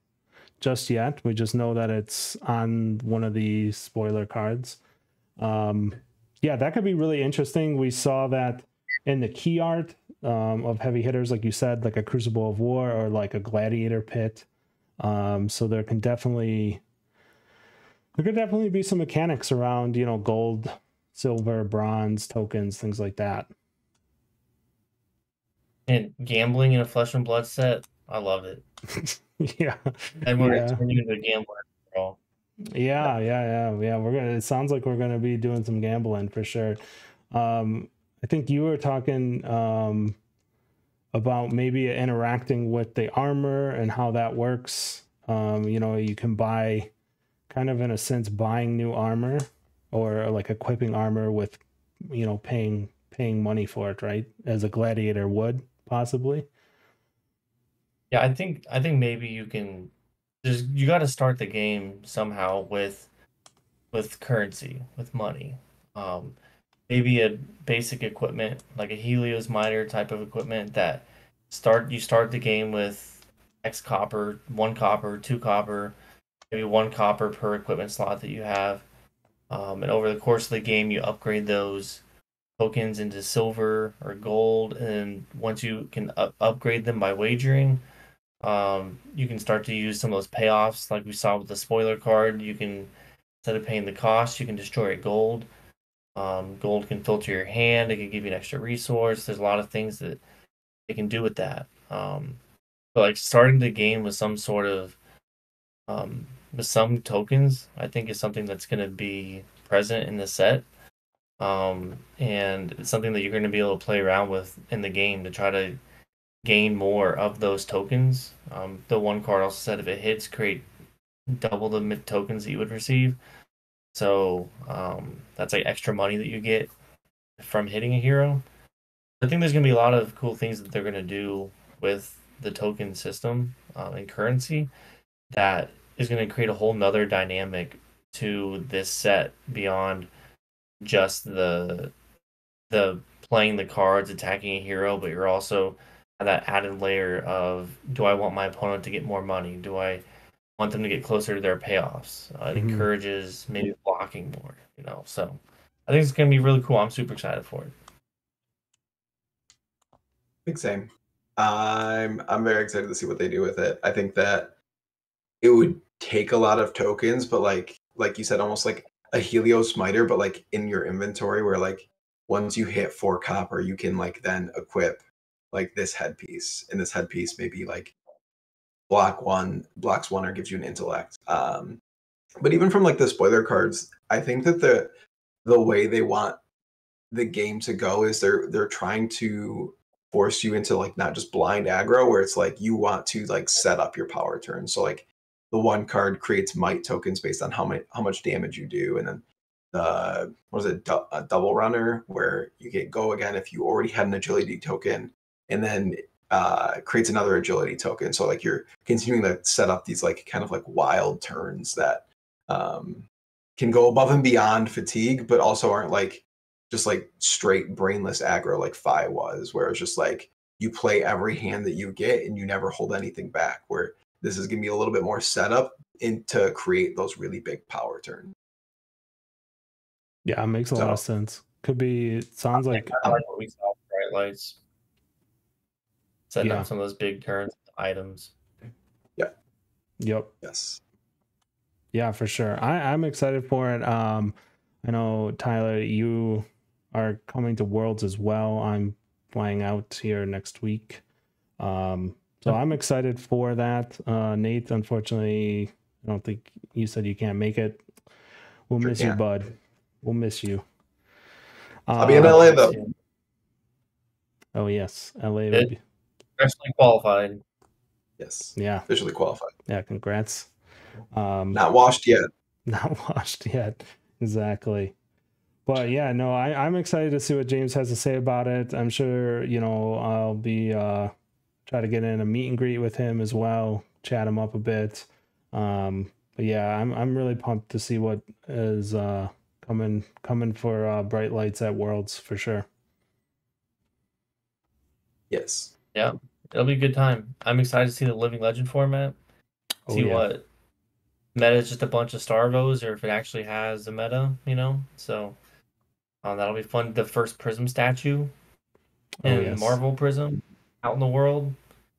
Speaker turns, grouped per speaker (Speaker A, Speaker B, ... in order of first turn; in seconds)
Speaker A: 0.6-4.8, 5.4-14.5, 15.0-16.8, 18.2-23.5, 28.9-29.8, 30.4-30.8, 32.7-36.8, 37.3-40.2, 41.1-46.9, 47.5-56.5, 152.5-152.9, 230.3-233.2, 236.4-236.7, 240.0-240.3, 241.9-251.0, 251.6-257.8, 258.7-260.6, 261.9-262.4, 264.6-265.8, 268.6-268.9, 269.7-270.5, 271.1-271.6, 272.7-274.9, 275.7-281.1, 281.7-292.7, 299.9-300.3, 309.2-309.8
Speaker B: 25.9-28.6, 30.2-32.2, 58.1-59.9, 60.4-63.1, 63.9-66.4, 66.9-76.0, 76.5-78.8, 79.5-82.0, 82.6-87.8, 88.4-92.9, 93.4-95.5, 96.2-100.2, 100.9-102.4, 103.0-105.0, 105.9-110.7, 111.4-115.8, 116.4-120.7, 121.3-123.2, 123.9-126.7, 127.4-128.4, 129.2-134.7, 135.3-140.1, 140.8-141.9, 142.7-150.0, 150.6-157.7, 232.6-234.6, 236.3-238.3, 262.2-262.9, 266.4-267.4, 295.9-299.2, 299.9-300.4, 301.4-305.4, 306.2-308.3, 309.2-311.6
Speaker C: 160.5-164.5, 165.4-177.9, 178.9-181.8, 182.4-184.9, 185.4-186.4, 187.1-228.3, 230.8-231.0, 240.4-240.8, 258.8-259.2, 262.0-262.8, 268.2-269.5, 271.5-272.3, 295.3-295.7